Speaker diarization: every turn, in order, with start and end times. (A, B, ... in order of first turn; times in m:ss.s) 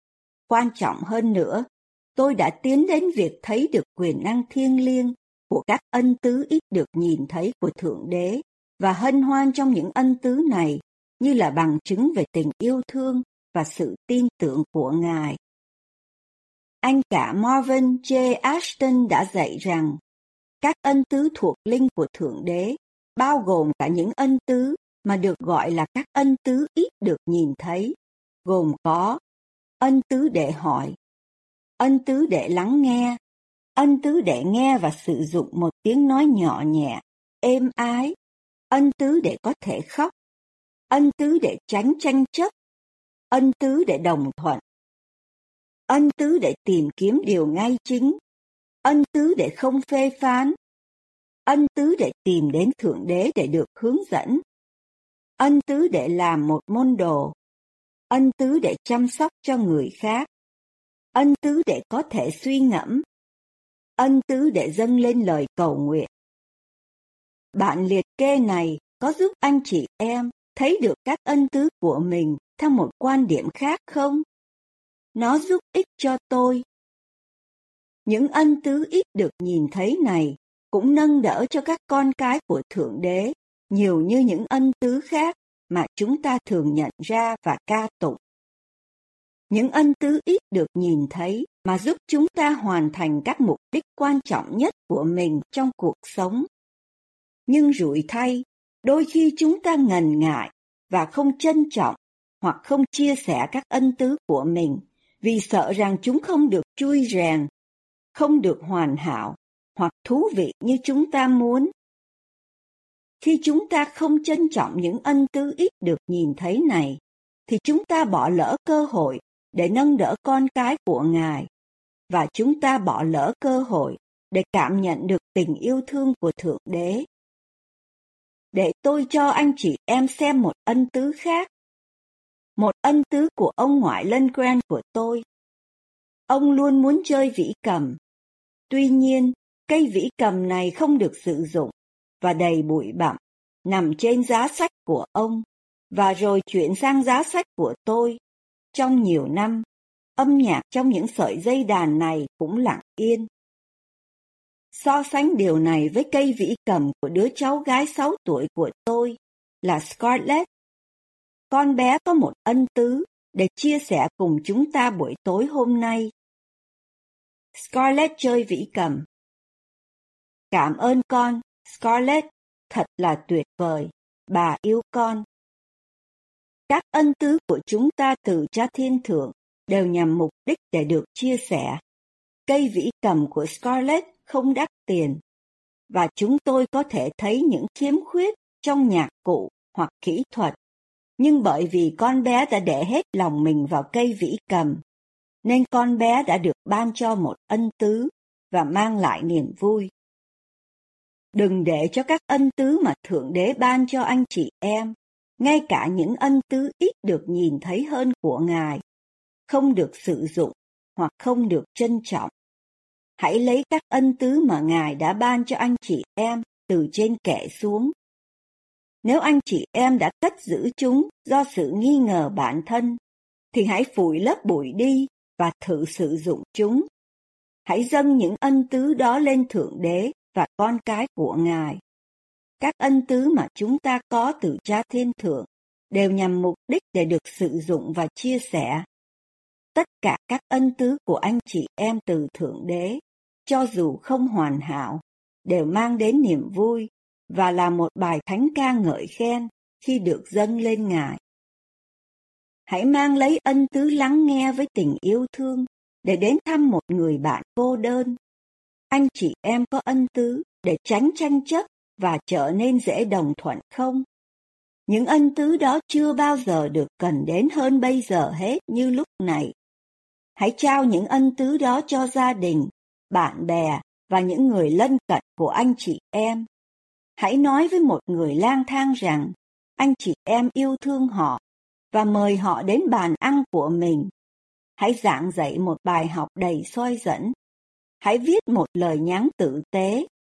0:00.5-0:15.4 A
0:16.8-0:20.0 A
0:20.6-0:29.2 A
0:29.8-0:31.0 A
0:31.8-0:33.2 A
0:33.8-0:38.2 A
0:38.7-0:40.1 A
0:40.9-0:42.5 A
0:43.3-0:44.6 A
0:45.9-0:48.2 A
0:48.8-0:50.6 A
0:51.5-0:54.4 A
0:55.4-0:57.4 A
0:58.1-1:00.3 A
1:01.1-1:03.0 A
1:04.0-1:06.1 A
1:07.5-1:14.2 A
1:15.2-1:16.6 A
1:18.1-1:28.2 A
1:29.5-1:36.5 A
1:37.5-1:47.5 A
1:48.1-1:51.7 A
1:53.2-2:01.5 A
2:02.1-2:07.1 A
2:08.5-2:11.5 A
2:12.6-2:15.2 A
2:16.3-2:18.0 A
2:18.7-2:28.2 A
2:28.7-2:29.7 A
2:30.2-2:33.3 A
2:34.7-2:40.5 A
2:41.5-2:46.1 A
2:47.6-2:49.1 A
2:50.5-2:55.3 A
2:56.7-3:01.8 A
3:02.5-3:05.2 A
3:05.9-3:10.6 A
3:11.2-3:14.8 A
3:15.4-3:19.9 A
3:21.3-3:28.8 A
3:29.5-3:32.3 A
3:33.2-3:37.9 A
3:39.0-3:43.0 A
3:43.5-3:46.9 A
3:47.6-3:51.8 A
3:52.6-3:58.9 A
3:59.7-4:11.2 A
4:12.7-4:18.2 A
4:18.9-4:24.0 A
4:24.9-4:29.6 A
4:30.4-4:36.5 A
4:37.2-4:44.1 A
4:44.8-4:47.4 A
4:48.0-4:50.1 A